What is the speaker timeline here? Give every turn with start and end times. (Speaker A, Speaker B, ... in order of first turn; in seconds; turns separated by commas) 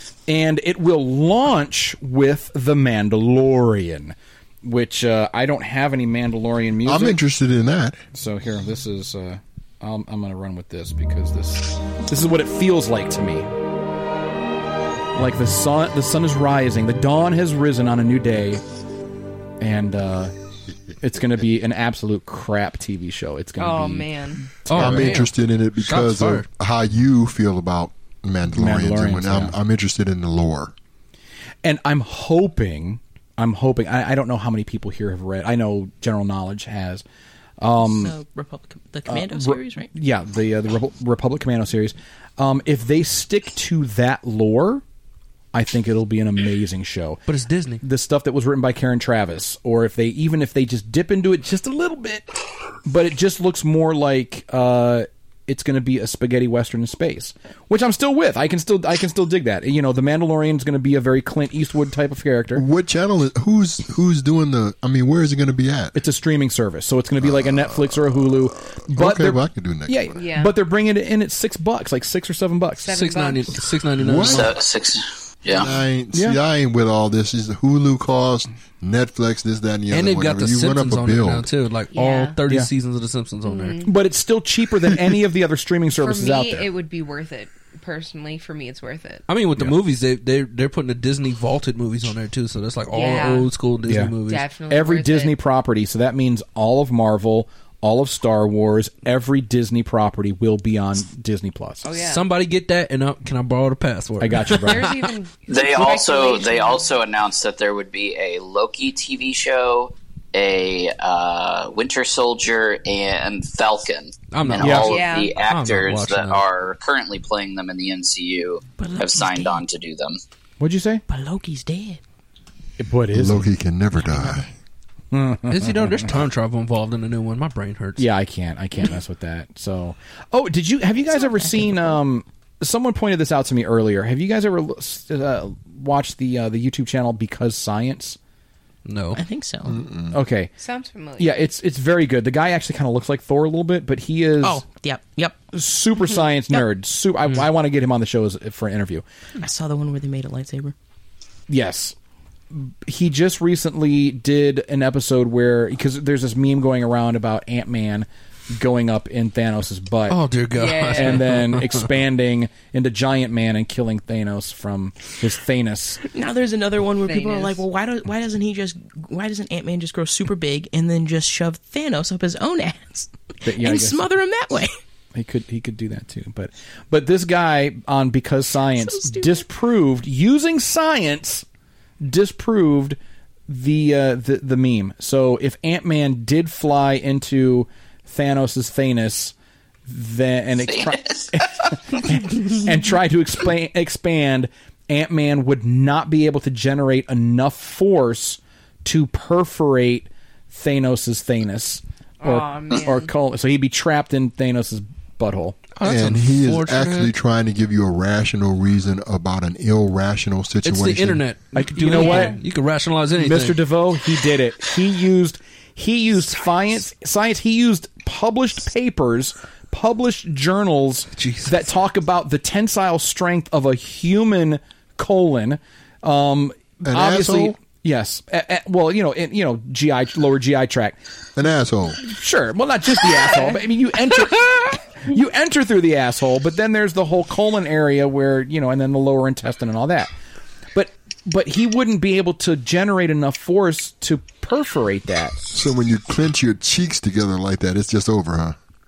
Speaker A: 0.3-7.2, Speaker B: 6.8-8.0, Speaker A: 8.1-13.5, Speaker A: 15.2-18.6, Speaker A: 19.6-20.3, Speaker A: 21.0-24.1, Speaker C: 23.6-24.4, Speaker A: 24.6-25.2, Speaker D: 24.7-26.5, Speaker B: 24.7-30.7, Speaker A: 28.5-29.6, Speaker A: 31.6-37.0, Speaker A: 37.6-38.1, Speaker E: 37.8-39.9, Speaker A: 39.1-44.8, Speaker A: 45.5-47.2, Speaker D: 47.3-47.8, Speaker A: 47.8-52.3, Speaker A: 52.9-62.6, Speaker B: 62.5-66.0, Speaker A: 66.0-72.9, Speaker B: 67.2-67.7, Speaker B: 68.8-70.2, Speaker C: 70.2-70.5, Speaker C: 72.8-73.5, Speaker D: 72.9-74.5, Speaker B: 74.0-74.5, Speaker F: 74.2-75.7, Speaker B: 75.5-81.5, Speaker A: 76.1-76.4, Speaker D: 79.9-83.8, Speaker C: 81.9-82.4, Speaker C: 83.4-83.9, Speaker A: 83.8-86.7, Speaker C: 86.0-89.2, Speaker D: 89.3-94.5, Speaker C: 92.9-93.5, Speaker A: 93.8-94.2, Speaker C: 94.3-95.3, Speaker A: 94.7-101.9, Speaker C: 101.8-102.2, Speaker D: 102.0-105.1, Speaker A: 104.2-104.9, Speaker C: 104.5-106.9, Speaker F: 105.5-120.2, Speaker D: 114.3-116.4, Speaker A: 114.6-115.0, Speaker C: 114.9-115.3, Speaker E: 118.8-119.6, Speaker A: 120.6-121.0, Speaker E: 121.1-122.0, Speaker A: 122.8-123.5, Speaker B: 123.1-124.5, Speaker E: 124.0-124.5, Speaker A: 125.1-126.1, Speaker D: 125.5-128.1, Speaker A: 128.0-138.2, Speaker E: 131.1-132.0, Speaker D: 138.8-139.2, Speaker E: 139.1-139.8, Speaker B: 139.7-140.1, Speaker A: 140.1-140.5, Speaker C: 140.6-141.4, Speaker A: 141.2-144.6, Speaker E: 144.4-145.4, Speaker A: 145.5-149.0, Speaker E: 149.4-150.7, Speaker A: 151.5-151.9, Speaker A: 152.5-160.2, Speaker D: 160.1-161.9, Speaker C: 160.5-161.3, Speaker A: 160.9-166.0, Speaker E: 166.0-174.8, Speaker C: 167.0-167.6, Speaker A: 173.4-174.0, Speaker A: 175.1-181.4, Speaker E: 178.7-179.5, Speaker A: 182.0-183.0, Speaker A: 183.5-189.3, Speaker A: 189.9-205.6, Speaker F: 190.7-191.7, Speaker C: 202.2-203.1, Speaker D: 205.8-207.1, Speaker B: 205.8-211.2, Speaker D: 210.6-213.6, Speaker A: 211.6-212.4, Speaker C: 211.9-212.4, Speaker A: 213.2-231.0, Speaker D: 221.2-221.7, Speaker B: 226.8-227.6, Speaker B: 231.4-232.0, Speaker A: 232.0-240.1, Speaker A: 240.7-245.4, Speaker B: 245.5-248.6